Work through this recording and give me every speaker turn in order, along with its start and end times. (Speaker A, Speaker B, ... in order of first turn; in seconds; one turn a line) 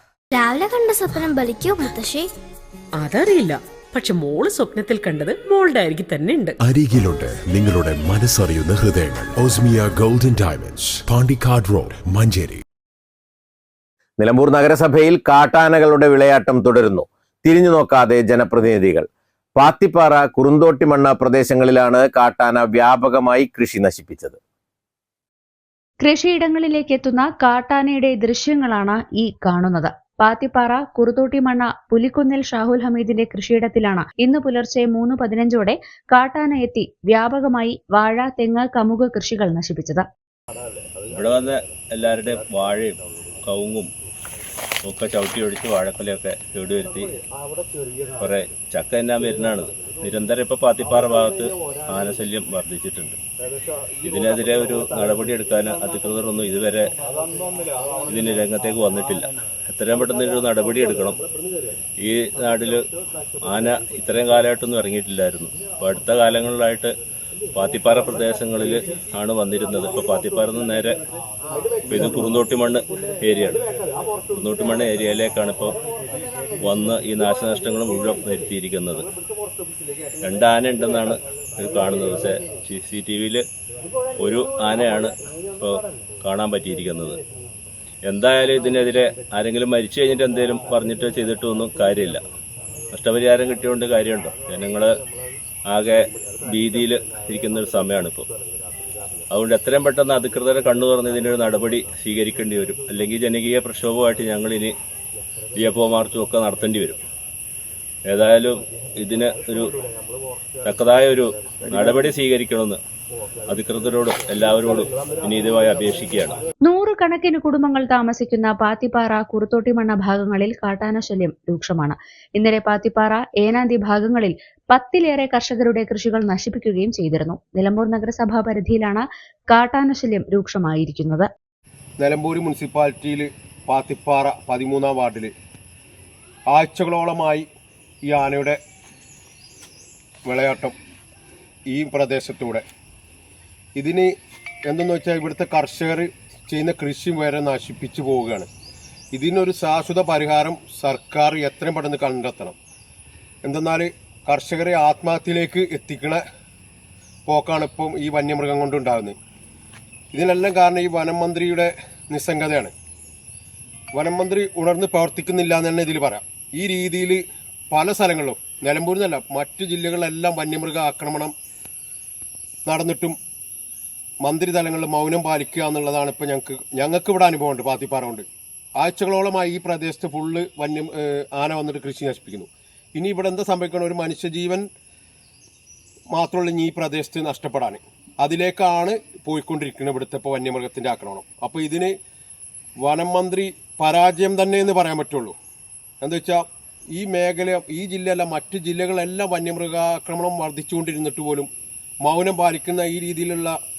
Speaker A: 0.3-2.3
Speaker B: 3.0-6.5
Speaker C: 6.6-12.6
Speaker D: 14.2-24.4
Speaker E: 26.0-40.0
Speaker F: 41.1-43.9
Speaker F: 44.8-47.1
Speaker F: 48.2-53.2
Speaker F: 54.0-56.9
Speaker F: 58.1-61.2
Speaker F: 62.0-62.8
Speaker F: 63.5-66.9
Speaker F: 67.5-71.0
Speaker F: 71.9-73.6
Speaker F: 74.3-75.8
Speaker F: 76.6-79.1
Speaker F: 80.2-83.5
Speaker F: 84.2-87.2
Speaker F: 88.0-92.2
Speaker F: 92.9-94.9
Speaker F: 95.7-98.2
Speaker F: 99.3-104.7
Speaker F: 105.5-107.0
Speaker F: 108.1-109.7
Speaker F: 110.6-112.8
Speaker F: 113.5-116.4
Speaker E: 116.7-131.3
Speaker G: 132.0-135.3
Speaker G: 136.5-137.4
Speaker G: 138.1-138.6
Speaker G: 140.2-140.7
Speaker G: 141.7-142.6
Speaker G: 143.8-144.1
Speaker G: 144.7-148.5
Speaker G: 149.1-152.6
Speaker G: 153.4-156.2
Speaker G: 157.3-159.2
Speaker G: 160.1-162.7
Speaker G: 163.9-171.3
Speaker G: 172.7-173.2
Speaker G: 174.2-178.2
Speaker G: 178.8-184.7
Speaker G: 186.1-191.9
Speaker G: 192.8-195.4
Speaker G: 196.0-196.4
Speaker G: 196.9-201.5
Speaker G: 202.0-203.5